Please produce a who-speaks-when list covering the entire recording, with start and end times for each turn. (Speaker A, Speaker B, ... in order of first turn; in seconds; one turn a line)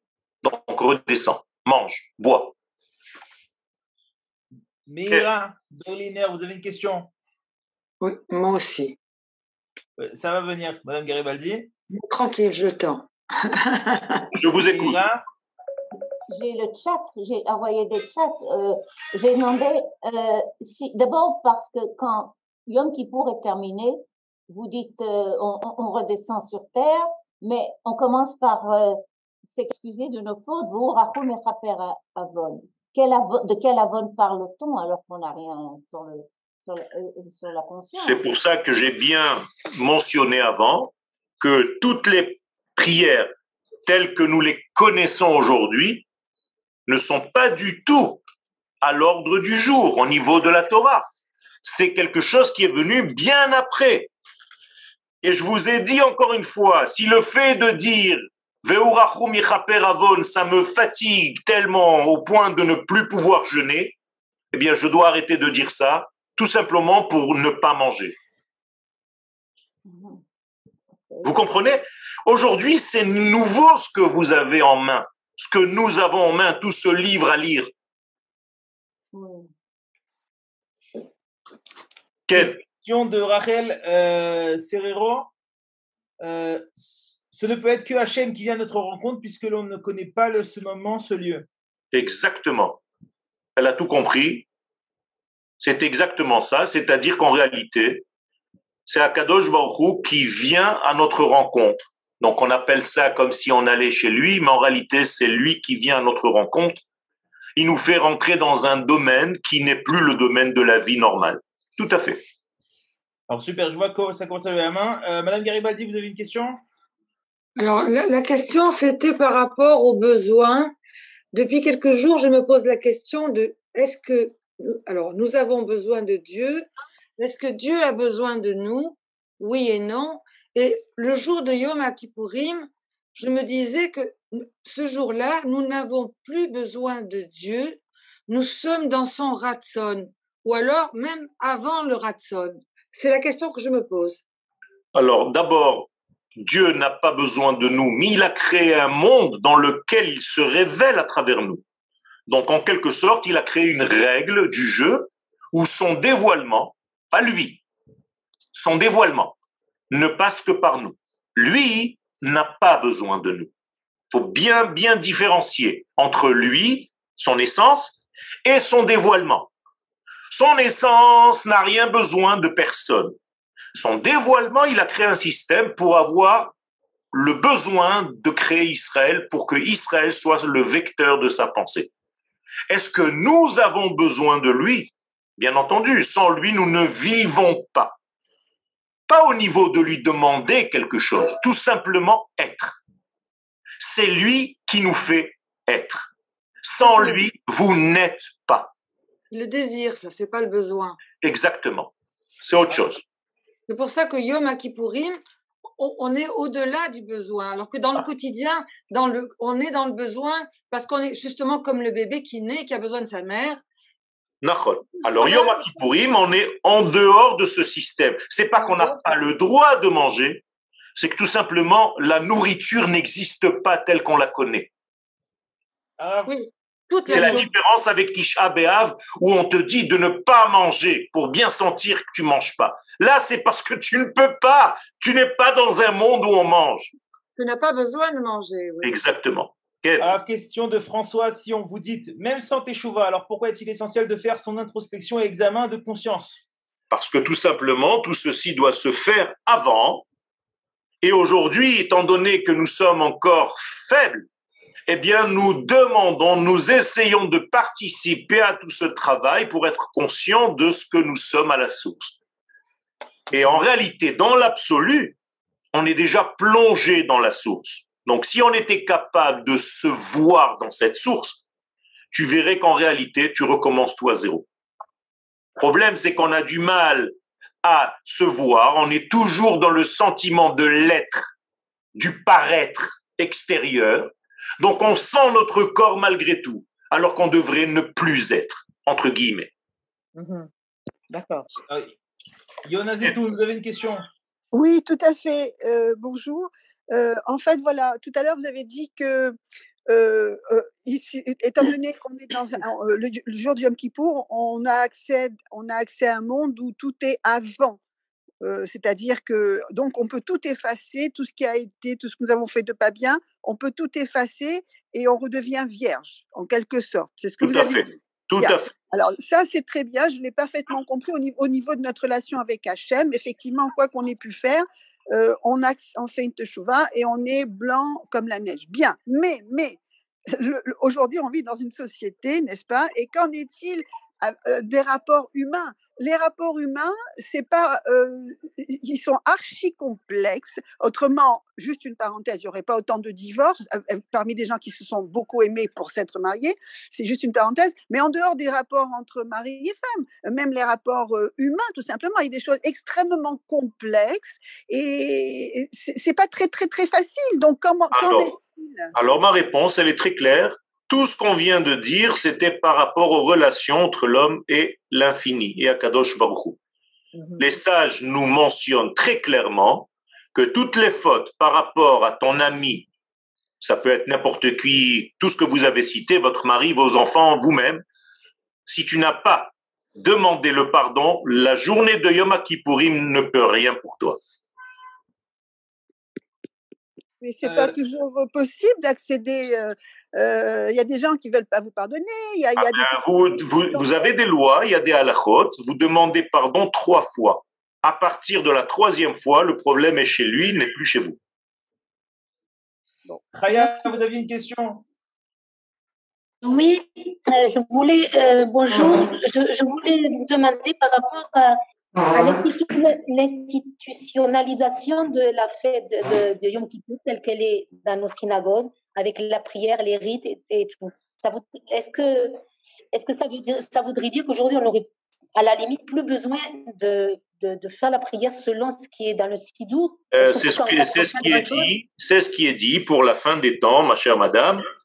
Speaker A: 0.4-2.5
Speaker B: 4.9-7.1
Speaker C: 8.0-9.0
Speaker B: 10.0-11.7
Speaker C: 11.9-14.3
Speaker A: 14.4-15.0
Speaker B: 14.7-15.2
Speaker D: 16.3-38.2
Speaker A: 38.0-43.3
Speaker A: 43.9-46.1
Speaker A: 46.9-48.2
Speaker A: 48.8-51.1
Speaker A: 51.6-54.1
Speaker A: 55.2-64.0
Speaker A: 64.5-68.2
Speaker D: 69.8-70.2
Speaker D: 71.1-71.4
Speaker A: 71.2-77.7
Speaker D: 79.1-79.5
Speaker A: 82.3-82.6
Speaker B: 82.3-85.3
Speaker B: 86.2-91.5
Speaker A: 91.9-92.8
Speaker A: 93.6-94.5
Speaker A: 95.6-98.0
Speaker A: 98.9-106.8
Speaker A: 107.6-112.2
Speaker B: 113.3-116.6
Speaker C: 117.6-120.7
Speaker C: 121.3-144.2
Speaker A: 144.9-151.6
Speaker A: 152.3-157.6
Speaker A: 158.5-159.3
Speaker A: 159.9-163.5
Speaker A: 164.1-169.5
Speaker A: 170.3-173.2
Speaker A: 173.8-176.5
Speaker A: 177.1-181.9
Speaker A: 182.7-188.0
Speaker A: 189.1-192.8
Speaker A: 193.8-196.1
Speaker A: 196.6-198.7
Speaker C: 196.8-197.2
Speaker C: 199.3-201.0
Speaker A: 201.2-203.0
Speaker C: 203.7-205.2
Speaker C: 205.8-213.6
Speaker A: 214.4-220.4
Speaker C: 215.2-215.6
Speaker C: 218.6-219.0
Speaker A: 221.0-224.7
Speaker B: 226.0-226.3
Speaker C: 226.2-227.4
Speaker B: 227.1-227.5
Speaker A: 227.1-236.9
Speaker C: 237.4-238.9
Speaker A: 238.8-240.1
Speaker B: 240.0-246.4
Speaker A: 246.9-250.1
Speaker A: 251.0-254.3
Speaker A: 254.9-262.2
Speaker A: 263.3-265.2
Speaker A: 265.7-271.4
Speaker A: 272.1-274.5
Speaker A: 275.6-281.3
Speaker A: 281.9-289.5
Speaker B: 291.7-291.9
Speaker B: 292.6-294.1
Speaker E: 294.5-299.4
Speaker E: 299.9-307.8
Speaker E: 308.4-358.9
Speaker A: 317.4-318.7
Speaker A: 357.9-358.4
Speaker A: 358.9-366.6
Speaker A: 367.4-372.9
Speaker A: 373.6-377.8
Speaker A: 378.7-384.2
Speaker E: 387.2-394.1
Speaker B: 387.4-387.7
Speaker A: 392.6-401.2
Speaker B: 403.3-404.8
Speaker F: 406.4-411.6
Speaker F: 412.1-422.4
Speaker F: 422.9-431.7
Speaker A: 430.1-434.6